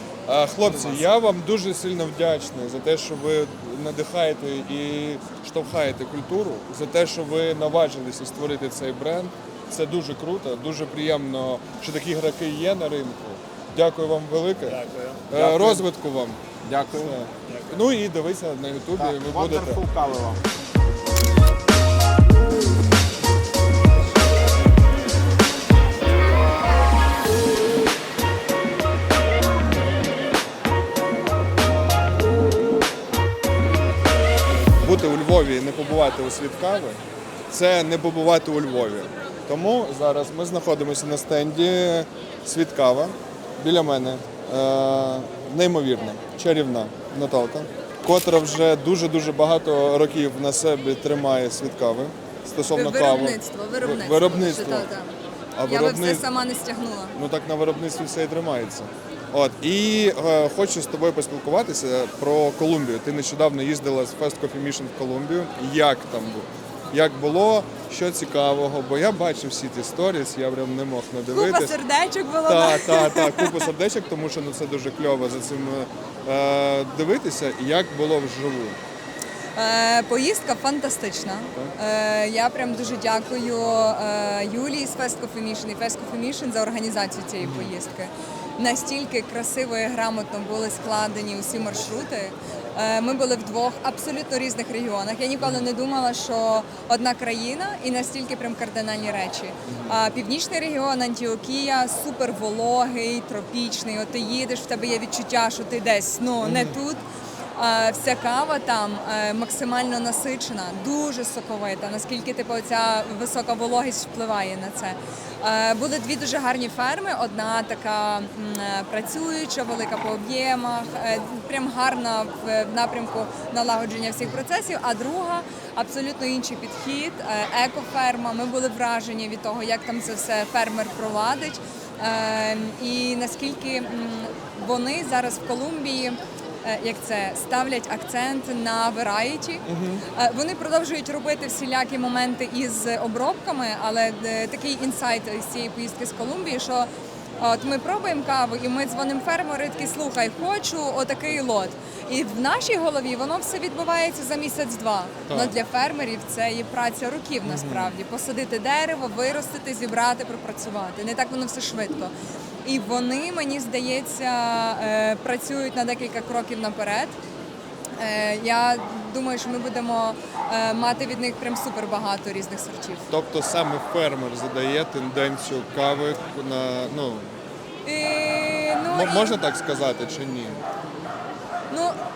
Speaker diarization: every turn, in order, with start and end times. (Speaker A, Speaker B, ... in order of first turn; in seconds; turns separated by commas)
Speaker A: 0.3-16.4, Speaker B: 14.7-15.8, Speaker B: 16.6-17.7, Speaker A: 17.0-19.8, Speaker B: 19.0-20.4, Speaker A: 34.7-54.9, Speaker C: 52.7-55.1, Speaker A: 55.6-56.2, Speaker C: 55.7-57.2, Speaker A: 57.1-71.8, Speaker C: 71.3-73.7, Speaker A: 72.5-78.8, Speaker C: 79.6-107.0, Speaker A: 87.4-87.7, Speaker A: 99.7-100.0, Speaker A: 106.4-106.8, Speaker C: 107.6-162.1, Speaker A: 139.7-140.0, Speaker A: 155.3-155.5, Speaker A: 157.4-158.0, Speaker C: 162.6-167.2, Speaker C: 168.0-173.1, Speaker A: 173.1-177.3, Speaker C: 177.8-179.4, Speaker A: 178.9-180.6, Speaker C: 181.7-182.0